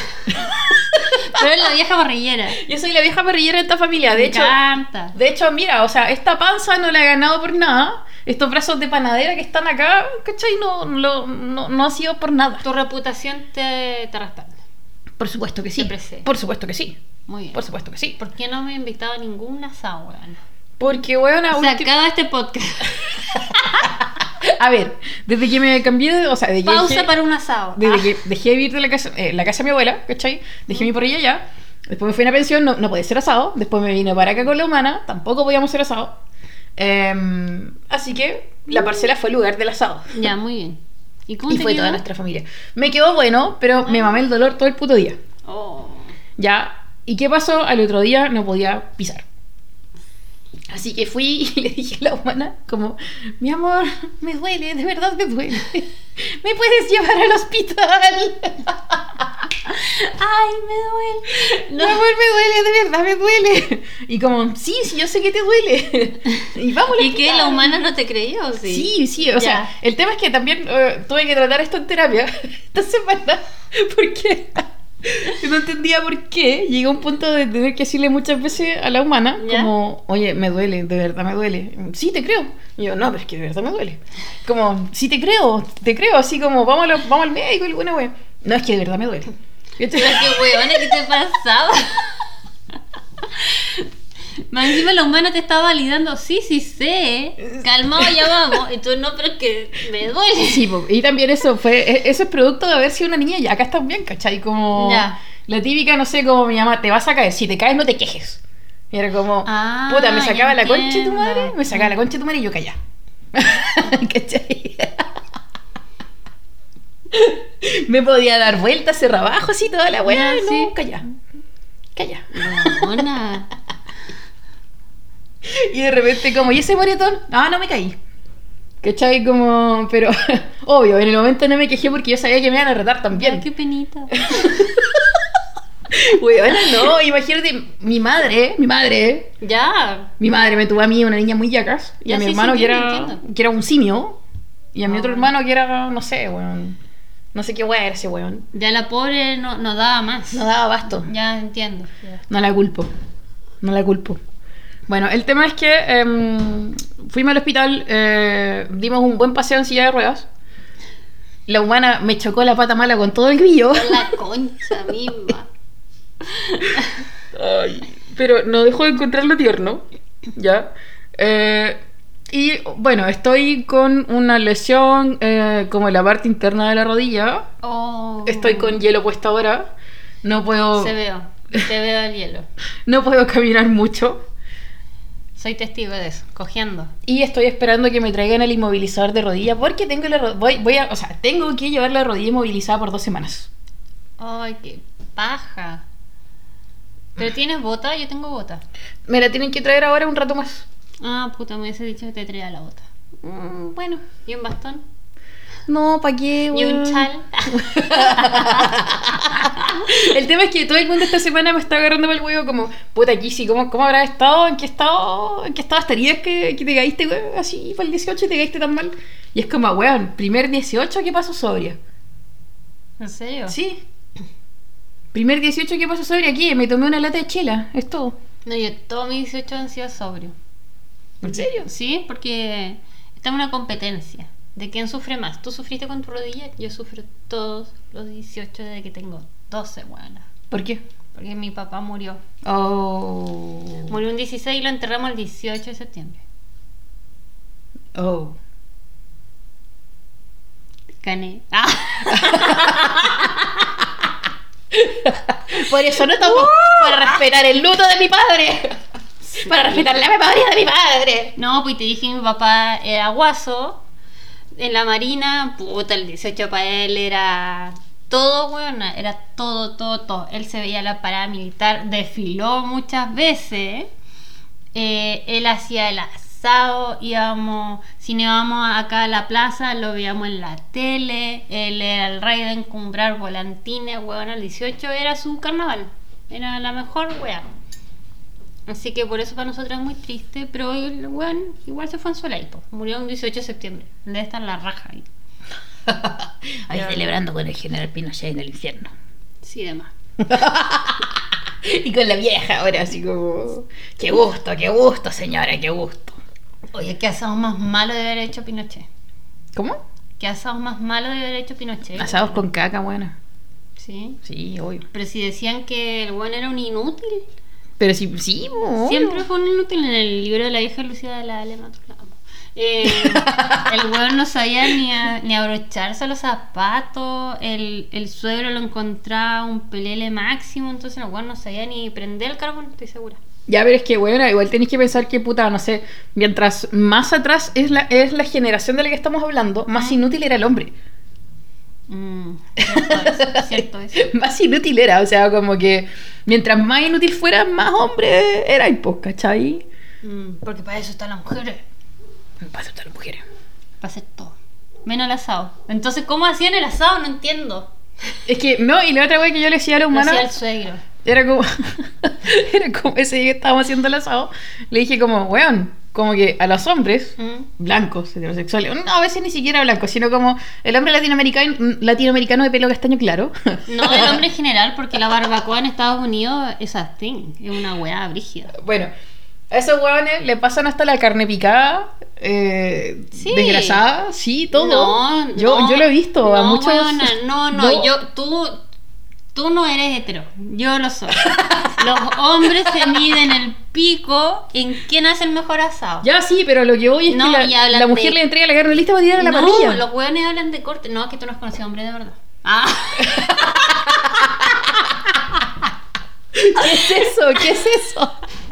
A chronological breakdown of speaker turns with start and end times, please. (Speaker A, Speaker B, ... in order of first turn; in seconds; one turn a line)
Speaker A: 0.4-1.5
Speaker B: 1.0-2.6
Speaker A: 2.6-4.6
Speaker B: 4.1-5.2
Speaker A: 5.1-12.6
Speaker B: 12.6-14.6
Speaker A: 15.2-17.0
Speaker B: 15.8-16.3
Speaker B: 17.3-17.6
Speaker A: 17.5-18.2
Speaker B: 18.2-20.4
Speaker A: 20.8-21.9
Speaker B: 21.5-23.0
Speaker A: 23.3-27.1
Speaker B: 26.6-28.2
Speaker A: 27.7-36.2
Speaker A: 36.8-40.1
Speaker B: 38.7-39.1
Speaker B: 40.1-42.0
Speaker A: 41.5-45.2
Speaker B: 43.9-44.2
Speaker B: 45.5-46.1
Speaker A: 46.4-49.2
Speaker A: 50.7-59.3
Speaker B: 59.7-62.0
Speaker A: 61.7-67.7
Speaker B: 66.9-69.7
Speaker A: 68.7-90.9
Speaker B: 79.4-79.7
Speaker B: 89.9-92.2
Speaker B: 93.3-93.9
Speaker B: 94.5-100.7
Speaker A: 100.5-112.8
Speaker B: 104.7-105.2
Speaker B: 109.4-112.0
Speaker A: 113.3-115.1
Speaker A: 117.1-121.0
Speaker B: 120.0-120.7
Speaker A: 122.0-123.0
Speaker B: 122.3-123.5
Speaker A: 125.4-128.0
Speaker A: 128.8-133.4
Speaker B: 133.1-134.6
Speaker A: 134.2-135.2
Speaker A: 135.9-139.3
Speaker B: 139.4-140.1
Speaker A: 140.2-144.2
Speaker B: 142.1-143.2
Speaker A: 144.7-146.8
Speaker B: 144.8-145.3
Speaker A: 147.3-148.5
Speaker B: 148.5-152.2
Speaker A: 150.3-151.1
Speaker A: 152.3-152.9
Speaker A: 153.6-154.2
Speaker A: 154.9-160.3
Speaker A: 161.5-164.1
Speaker B: 163.7-165.5
Speaker B: 166.4-166.9
Speaker A: 167.3-177.5
Speaker B: 177.6-178.8
Speaker A: 178.2-179.7
Speaker A: 180.2-180.9
Speaker B: 180.7-182.5
Speaker A: 182.8-184.2
Speaker B: 185.3-186.9
Speaker A: 187.1-193.5
Speaker B: 194.2-195.8
Speaker B: 197.2-198.6
Speaker A: 199.1-200.7
Speaker B: 201.0-202.8
Speaker A: 203.2-204.0
Speaker B: 204.0-204.8
Speaker A: 205.7-221.8
Speaker B: 206.5-208.8
Speaker B: 223.0-223.6
Speaker A: 223.5-223.8
Speaker A: 225.1-228.1
Speaker B: 228.4-230.3
Speaker A: 231.2-231.7
Speaker B: 231.2-240.3
Speaker A: 240.5-240.8
Speaker B: 241.1-242.2
Speaker A: 242.4-243.9
Speaker B: 243.9-246.2
Speaker A: 247.9-248.4
Speaker B: 251.0-253.5
Speaker A: 252.1-253.3
Speaker A: 254.7-261.3
Speaker B: 256.1-257.2
Speaker B: 259.3-259.9
Speaker B: 261.4-263.8
Speaker B: 264.5-273.9
Speaker B: 274.7-287.4
Speaker B: 288.7-295.1
Speaker A: 295.9-298.9
Speaker B: 296.7-297.1
Speaker B: 299.4-299.9
Speaker A: 300.2-306.2
Speaker B: 306.7-308.9
Speaker A: 309.5-309.8
Speaker B: 310.2-312.4
Speaker A: 312.0-313.1
Speaker B: 313.8-314.2
Speaker A: 314.2-314.8
Speaker B: 314.9-317.2
Speaker A: 317.8-319.2
Speaker B: 318.8-333.2
Speaker A: 322.8-323.7
Speaker A: 333.5-340.7
Speaker B: 341.9-344.0
Speaker A: 342.6-349.6
Speaker B: 350.0-351.6
Speaker A: 352.4-353.2
Speaker B: 353.8-358.1
Speaker A: 358.2-360.3
Speaker B: 359.9-360.8
Speaker A: 361.0-374.2
Speaker B: 367.2-367.5
Speaker B: 373.7-378.5
Speaker A: 378.5-378.9
Speaker A: 379.5-387.9
Speaker B: 383.1-383.8
Speaker B: 384.5-388.6
Speaker B: 389.3-396.1
Speaker A: 391.2-391.8
Speaker A: 392.6-392.9
Speaker A: 396.0-399.8
Speaker B: 397.1-398.2
Speaker B: 399.2-404.3
Speaker A: 403.0-405.0
Speaker A: 406.3-408.2